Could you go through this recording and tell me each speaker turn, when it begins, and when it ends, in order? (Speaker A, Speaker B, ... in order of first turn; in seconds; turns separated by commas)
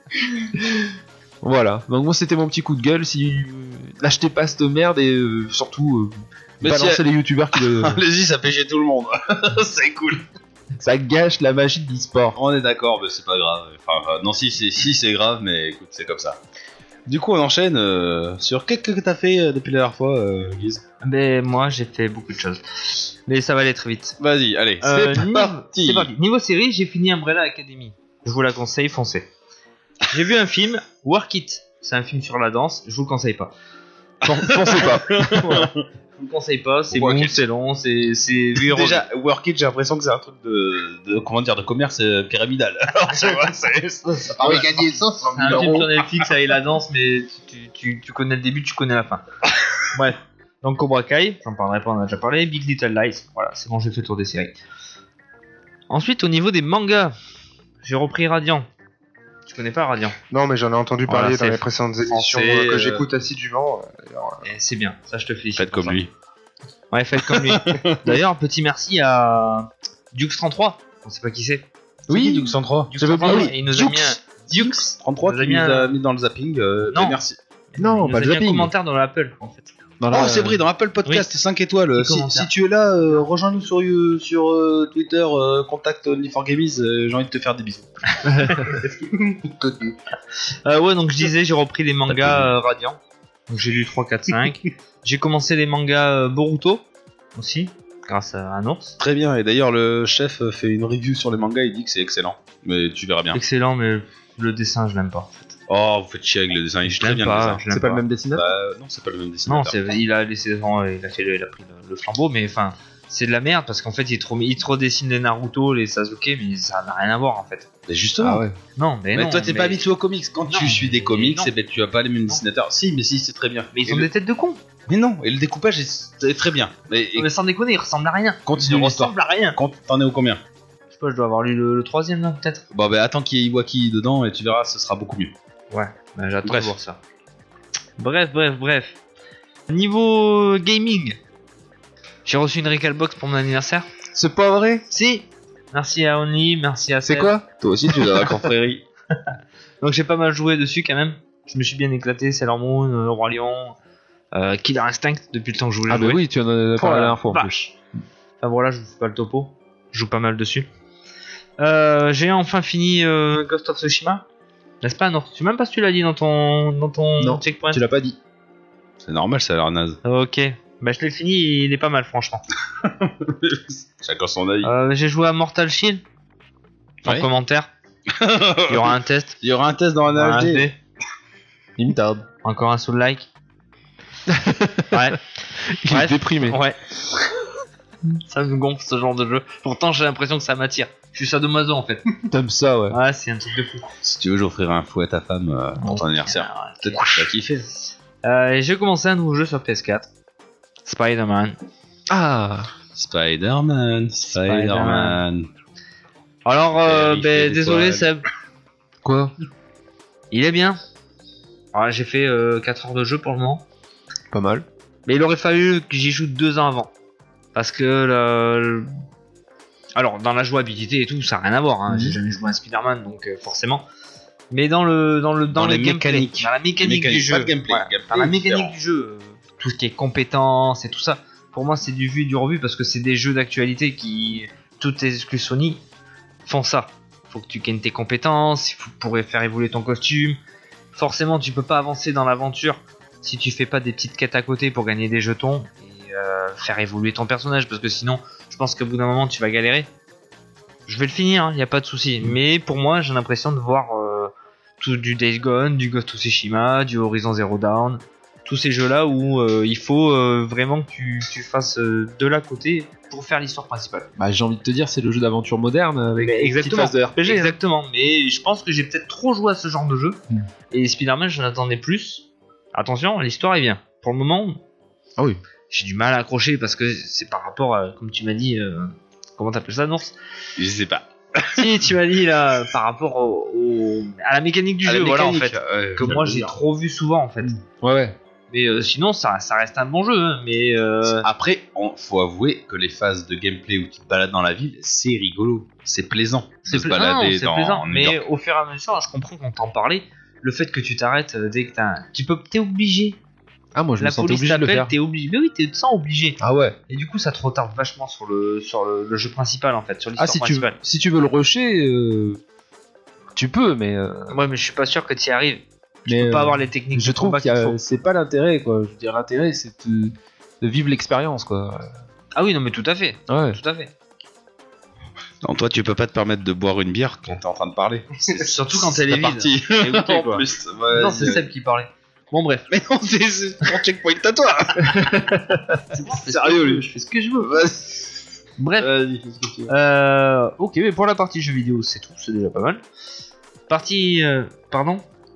Speaker A: 1.4-8.0, Speaker B: 6.6-10.2, Speaker A: 10.8-12.4, Speaker B: 12.3-16.4, Speaker B: 17.1-20.8, Speaker C: 21.0-24.2, Speaker B: 24.2-25.1, Speaker C: 24.8-29.3, Speaker A: 24.9-25.4, Speaker B: 25.7-26.1, Speaker C: 30.1-33.5, Speaker A: 34.2-35.5, Speaker B: 34.4-35.8, Speaker C: 36.2-39.0, Speaker B: 36.9-37.4, Speaker B: 38.6-44.7, Speaker C: 44.0-49.2, Speaker D: 44.4-45.9, Speaker B: 45.4-45.8, Speaker C: 49.9-54.6, Speaker C: 55.9-57.1, Speaker C: 57.8-58.7, Speaker C: 59.5-60.2, Speaker D: 60.3-64.5, Speaker C: 61.1-63.0, Speaker C: 64.4-66.0, Speaker B: 65.6-66.1, Speaker C: 66.9-71.7, Speaker B: 67.2-68.2, Speaker B: 72.1-77.4, Speaker A: 72.1-74.0, Speaker C: 72.9-76.0, Speaker C: 76.9-77.2, Speaker C: 77.7-79.7, Speaker A: 77.8-78.7, Speaker A: 80.0-80.6, Speaker B: 80.1-88.1, Speaker C: 81.9-82.5, Speaker C: 88.2-89.1, Speaker D: 89.5-90.0, Speaker C: 90.6-99.0, Speaker B: 92.1-92.6, Speaker B: 99.0-103.4, Speaker C: 103.3-105.6, Speaker B: 105.7-107.6, Speaker C: 106.8-108.0, Speaker A: 107.7-108.5, Speaker B: 108.3-109.8, Speaker C: 109.5-117.7, Speaker B: 117.9-118.4, Speaker A: 118.2-118.6, Speaker C: 118.8-119.8, Speaker B: 119.1-124.1, Speaker C: 120.5-121.5, Speaker C: 123.7-124.6, Speaker B: 124.9-127.3, Speaker C: 127.2-129.6, Speaker B: 128.5-130.4, Speaker C: 130.9-132.6, Speaker B: 132.7-135.3, Speaker C: 135.7-137.0, Speaker B: 136.4-136.7, Speaker C: 138.0-139.0, Speaker C: 139.7-141.2, Speaker C: 142.2-143.9, Speaker A: 144.1-144.8, Speaker C: 144.9-147.4, Speaker A: 147.1-148.3, Speaker B: 147.6-148.8, Speaker C: 149.8-153.8, Speaker C: 154.3-156.2, Speaker A: 155.9-157.8, Speaker C: 156.8-157.5, Speaker C: 158.4-160.7, Speaker C: 161.6-164.2, Speaker C: 164.8-167.8, Speaker A: 167.2-168.2, Speaker B: 169.0-170.0, Speaker C: 170.0-172.4, Speaker B: 172.8-174.7, Speaker C: 174.6-176.0, Speaker C: 177.1-177.7, Speaker B: 178.1-180.7, Speaker C: 178.7-179.4, Speaker C: 180.1-180.8, Speaker A: 181.8-182.3, Speaker C: 182.4-183.3, Speaker A: 184.3-185.0, Speaker C: 184.9-185.2, Speaker A: 185.8-186.6, Speaker C: 185.9-187.0, Speaker C: 188.2-192.1, Speaker A: 192.3-193.0, Speaker C: 192.9-193.9, Speaker B: 194.0-197.7, Speaker C: 195.8-197.3, Speaker C: 198.2-200.1, Speaker C: 200.9-201.6, Speaker A: 202.1-202.7, Speaker B: 202.9-205.5, Speaker C: 204.3-205.2, Speaker C: 206.4-208.2, Speaker B: 206.7-208.1, Speaker A: 209.0-209.3, Speaker C: 210.3-210.8, Speaker C: 211.7-213.7, Speaker A: 214.3-214.7, Speaker C: 215.1-216.9, Speaker C: 217.6-218.9, Speaker C: 219.9-223.9, Speaker A: 221.9-222.2, Speaker C: 224.5-235.8, Speaker B: 225.5-228.8, Speaker C: 236.4-240.4, Speaker C: 240.9-249.9, Speaker C: 250.9-264.1, Speaker A: 264.2-267.6, Speaker C: 266.2-274.6, Speaker C: 275.7-280.1, Speaker B: 280.6-281.9, Speaker C: 281.5-287.5, Speaker B: 284.9-286.6, Speaker A: 287.4-288.2, Speaker C: 288.5-291.3, Speaker B: 291.2-298.2, Speaker C: 296.6-303.2, Speaker A: 303.8-304.9, Speaker C: 304.0-310.8, Speaker A: 306.4-306.8, Speaker A: 310.2-312.4, Speaker A: 313.4-314.4, Speaker C: 314.3-317.8, Speaker A: 316.1-321.9, Speaker C: 322.3-323.9, Speaker A: 323.3-323.6, Speaker B: 325.4-331.4, Speaker C: 328.3-332.7, Speaker B: 332.7-335.1, Speaker A: 334.8-335.8, Speaker C: 335.9-337.7, Speaker B: 336.1-336.9, Speaker B: 337.5-338.1, Speaker C: 338.6-338.9, Speaker B: 338.8-339.7, Speaker C: 339.7-342.8, Speaker C: 343.7-345.1